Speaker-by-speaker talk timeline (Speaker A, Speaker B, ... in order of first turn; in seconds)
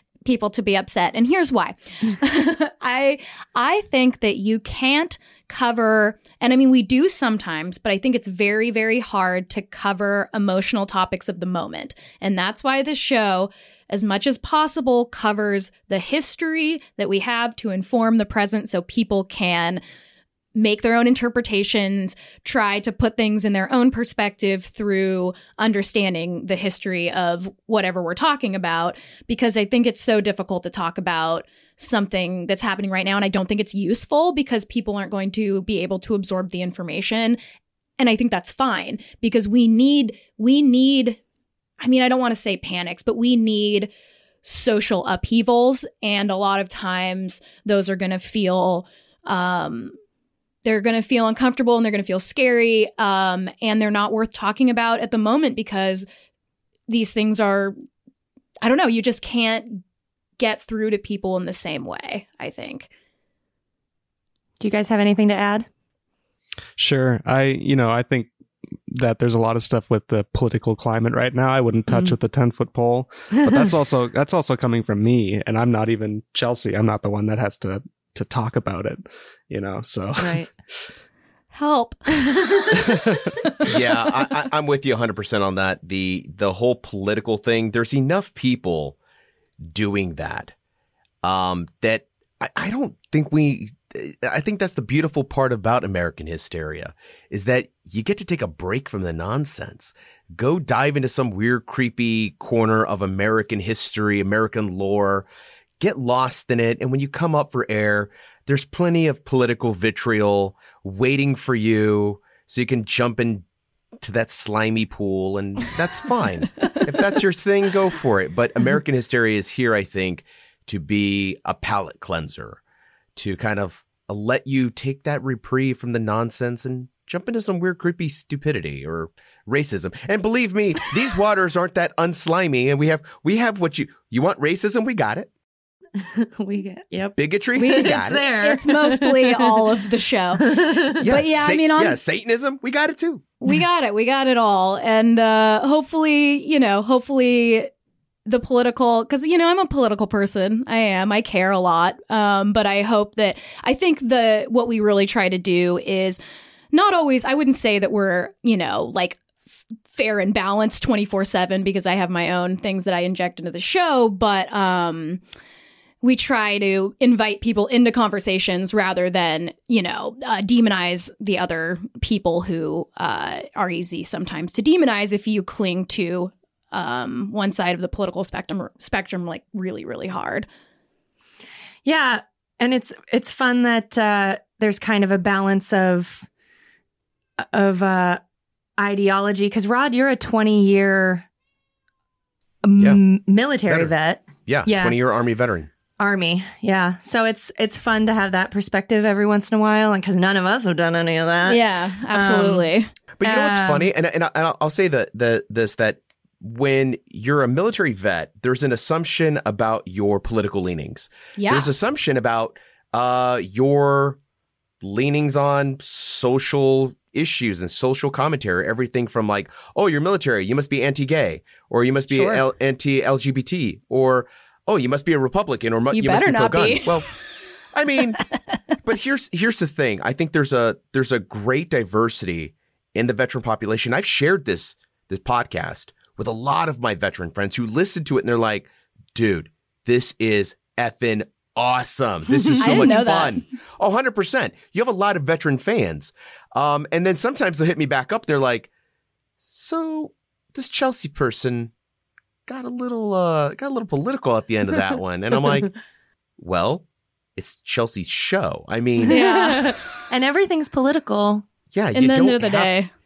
Speaker A: 0.2-19.8, 20.5-37.4, 38.0-41.2, 41.8-43.9, 44.4-49.9, 50.6-56.0, 56.9-57.7, 58.6-59.8, 60.4-62.9, 81.5-82.9, 83.4-83.7, 137.6-142.0, 143.4-147.7, 148.2-156.2, 156.7-159.2, 159.9-165.2, 166.0-180.5, 201.4-202.9, 211.4-211.7, 222.1-222.4, 225.9-227.0, 242.6-243.4, 259.0-259.8, 261.9-262.9
Speaker B: 64.6-65.7, 71.9-72.2, 80.2-80.5, 136.0-139.7, 140.4-140.9, 181.8-186.3, 187.4-188.2, 188.8-191.2, 192.6-195.0, 196.0-202.7, 203.2-203.9, 242.4-242.9, 259.1-261.4
Speaker C: 66.8-68.3, 68.9-80.5, 82.7-83.3
Speaker D: 83.6-89.0, 89.6-90.5, 91.2-105.2, 105.8-113.4, 114.0-122.6, 123.1-135.3, 137.2-138.2, 141.0-143.2, 193.7-193.9, 194.4-195.7, 203.2-214.2, 214.8-227.1, 227.7-228.2, 228.8-248.7, 249.4-251.7, 252.5-255.7, 256.4-256.8, 257.4-259.2, 261.7-262.7